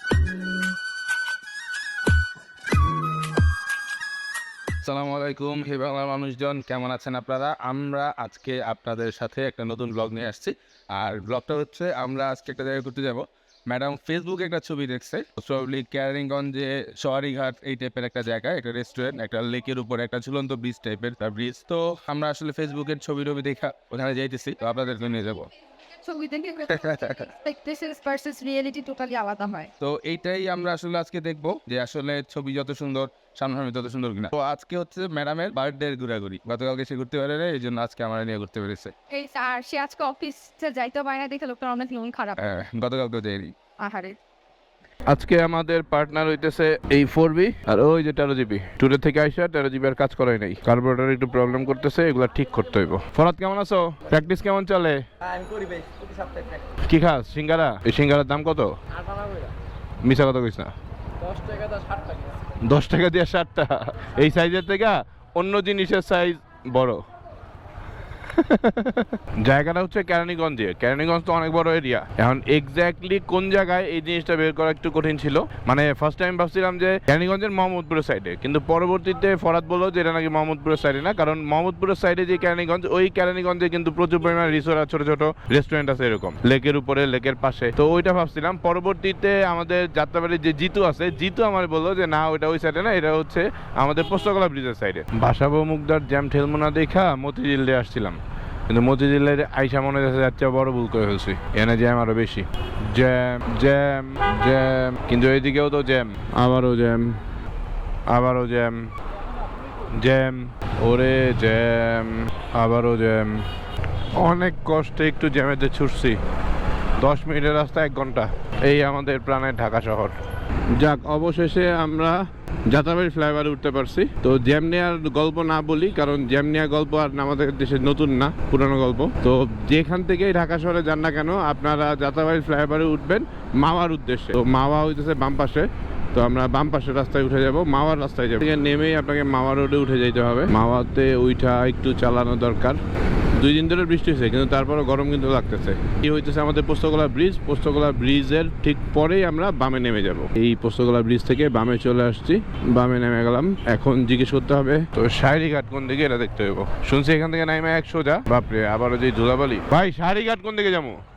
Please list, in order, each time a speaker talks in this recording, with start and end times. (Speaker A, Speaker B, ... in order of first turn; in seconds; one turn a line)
Speaker A: 4.8-25.5
Speaker B: 26.0-29.7
Speaker A: 26.7-27.3
Speaker A: 29.8-38.9
Speaker B: 39.1-42.4
Speaker A: 42.4-43.5
Speaker B: 43.8-44.2
Speaker C: 45.1-55.0
Speaker C: 56.9-58.7
Speaker C: 60.0-60.7
Speaker C: 62.6-67.0
Speaker C: 68.2-107.2
Speaker C: 108.1-108.9
Speaker C: 110.0-113.5
Speaker C: 114.2-116.2
Speaker C: 117.0-120.2
Speaker C: 120.8-142.8
Speaker C: 143.4-161.0